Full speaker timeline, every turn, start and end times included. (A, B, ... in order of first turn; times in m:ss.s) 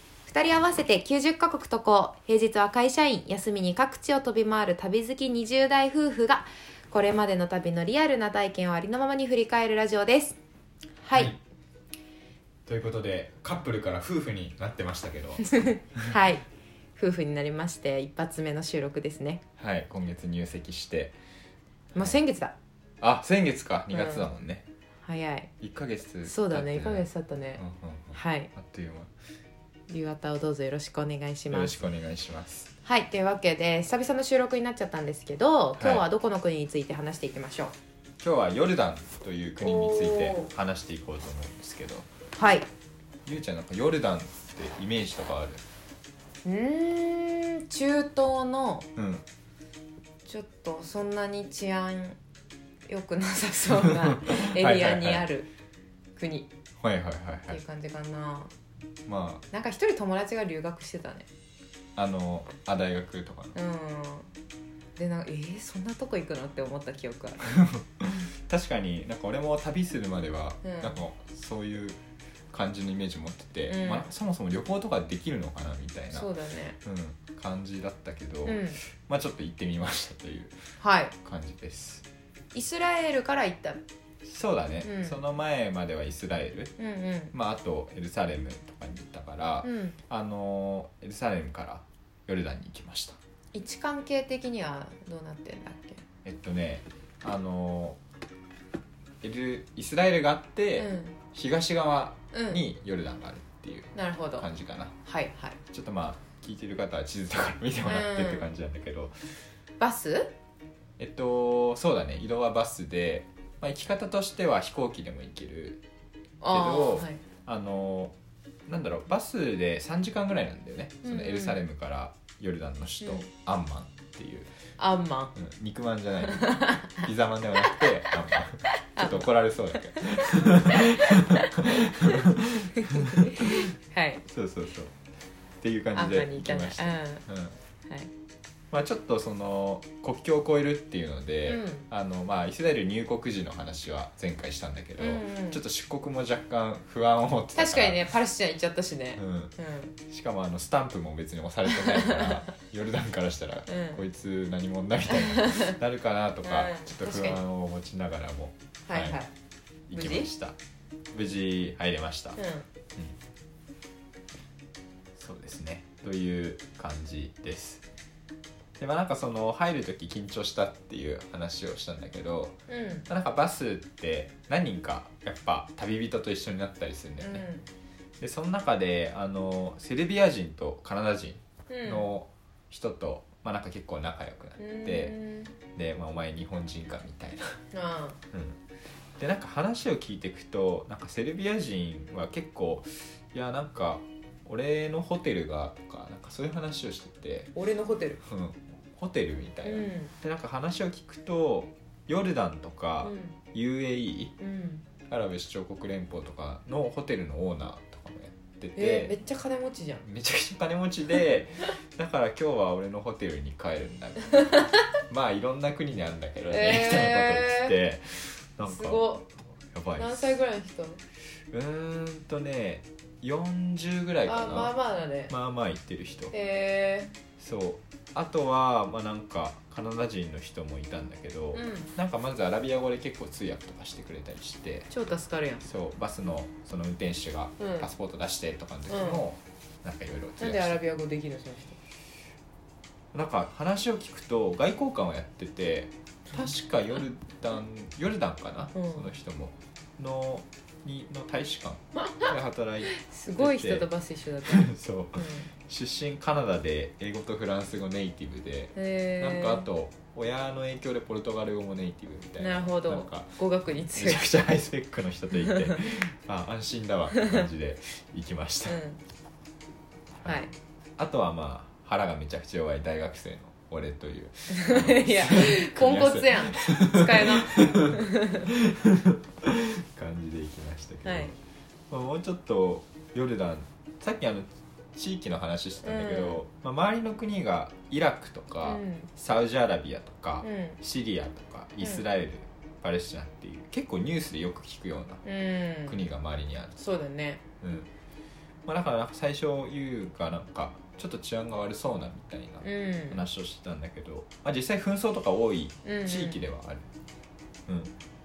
0:00.2-0:10.4 A
0:11.0-0:11.3 A
0:11.1-0:11.4 B
0:12.7-0:16.1 B
0:15.5-0:19.4 A
0:19.6-0:21.2 B
0:21.9-0:22.6 A
0:23.0-0:24.6 B
0:23.9-0:24.3 A
0:25.0-0:25.5 A
0:25.6-0:27.1 B
0:26.2-0:27.6 A
0:27.6-0:29.1 B
0:28.1-0:28.5 A
0:29.9-0:31.8 A
0:31.5-0:32.7 B
0:32.8-0:37.7 A
0:35.8-0:36.0 B
0:38.2-0:42.1 B
0:39.6-0:40.5 A
0:42.4-0:42.7 A
0:43.3-0:45.6 B
0:46.4-0:48.9 A
0:49.0-0:49.2 B
0:50.2-0:52.2 A
0:52.9-0:55.5 A
0:53.7-0:55.2 B
0:56.2-0:56.5 A
0:56.8-0:57.6 B
0:57.5-0:58.5 A
0:59.1-0:59.4 B
0:59.5-1:01.3 A
1:02.0-1:03.6 B
1:03.6-1:04.3 A
1:05.0-1:07.5 A
1:07.5-1:12.0 B
1:10.6-1:11.0 A
1:12.5-1:16.3 B
1:13.7-1:14.1 A
1:16.1-1:16.8 A
1:16.8-1:20.6 B
1:18.4-1:18.8 A
1:20.8-1:21.2 A
1:21.2-1:22.0 B
1:22.5-1:23.8 A
1:24.2-1:26.7 B
1:24.8-1:25.2 A
1:26.8-1:27.3 A
1:27.3-1:33.2 B
1:29.6-1:30.0 A
1:33.5-1:36.0 A
1:36.2-1:38.0 B
1:39.2-1:45.0 B
1:40.8-1:41.2 A
1:42.3-1:42.6 A
1:43.9-1:44.5 A
1:45.0-1:45.6 A
1:45.7-1:49.2 B
1:47.8-1:48.5 A
1:49.8-1:50.3 A
1:51.0-1:55.8 B
1:56.4-1:57.2 A
1:56.5-1:58.2 B
1:58.7-2:04.5 B
2:01.0-2:01.6 A
2:03.0-2:03.3 A
2:04.8-2:05.4 A
2:05.4-2:13.7 B
2:06.2-2:07.0 A
2:08.8-2:14.2 A
2:14.3-2:14.9 B
2:15.6-2:17.6 B
2:15.9-2:17.2 A
2:18.7-2:28.1 B
2:21.4-2:21.9 A
2:25.0-2:25.6 A
2:27.6-2:30.0 A
2:29.2-2:29.5 B
2:30.1-2:39.2 B
2:31.7-2:32.5 A
2:33.7-2:34.0 A
2:35.1-2:35.8 A
2:36.4-2:37.4 A
2:38.9-2:39.3 A
2:39.9-2:40.6 B
2:39.9-2:40.3 A
2:41.1-2:42.4 B
2:42.4-2:42.7 A
2:45.2-2:47.8 B
2:48.8-2:57.5 B
2:52.7-2:53.1 A
2:57.2-2:57.7 A
2:58.2-3:05.2 B
3:01.7-3:02.1 A
3:04.6-3:05.5 A
3:05.7-3:07.6 B
3:07.7-3:08.2 A
3:08.3-3:08.6 B
3:09.2-3:17.5 B
3:17.6-3:18.2 A
3:18.2-3:24.4 B
3:19.6-3:20.1 A
3:23.0-3:23.4 A
3:24.4-3:24.9 A
3:25.1-3:29.1 B
3:28.8-3:30.0 A
3:30.0-3:34.5 B
3:35.1-3:39.0 B
3:36.5-3:37.7 A
3:38.7-3:39.3 A
3:39.7-3:40.4 B
3:40.0-3:41.0 A
3:41.5-3:44.8 B
3:44.3-3:45.3 A
3:45.3-3:46.3 B
3:46.3-3:47.1 A
3:47.4-3:54.9 B
3:51.5-3:51.9 A
3:54.9-3:55.7 A
3:55.6-4:00.8 B
3:57.6-3:57.9 A
3:58.9-3:59.3 A
4:00.4-4:01.8 A
4:03.1-4:13.9 B
4:08.8-4:09.1 A
4:12.9-4:15.5 A
4:14.4-4:23.4 B
4:18.8-4:19.7 A
4:22.4-4:24.3 A
4:23.9-4:28.8 B
4:25.4-4:25.8 A
4:27.2-4:27.4 A
4:28.7-4:29.0 A
4:30.2-4:37.9 B
4:30.2-4:30.5 A
4:34.5-4:38.5 A
4:38.5-4:41.4 B
4:41.0-4:41.3 A
4:41.9-4:55.2 B
4:45.8-4:46.4 A
4:48.6-4:49.1 A
4:50.4-4:50.8 A
4:55.2-4:56.0 A
4:55.9-4:56.8 B
4:56.8-4:57.4 A
4:57.6-4:57.9 B
4:58.7-5:06.9 B
5:02.6-5:03.2 A
5:05.8-5:06.4 A
5:07.7-5:07.9 B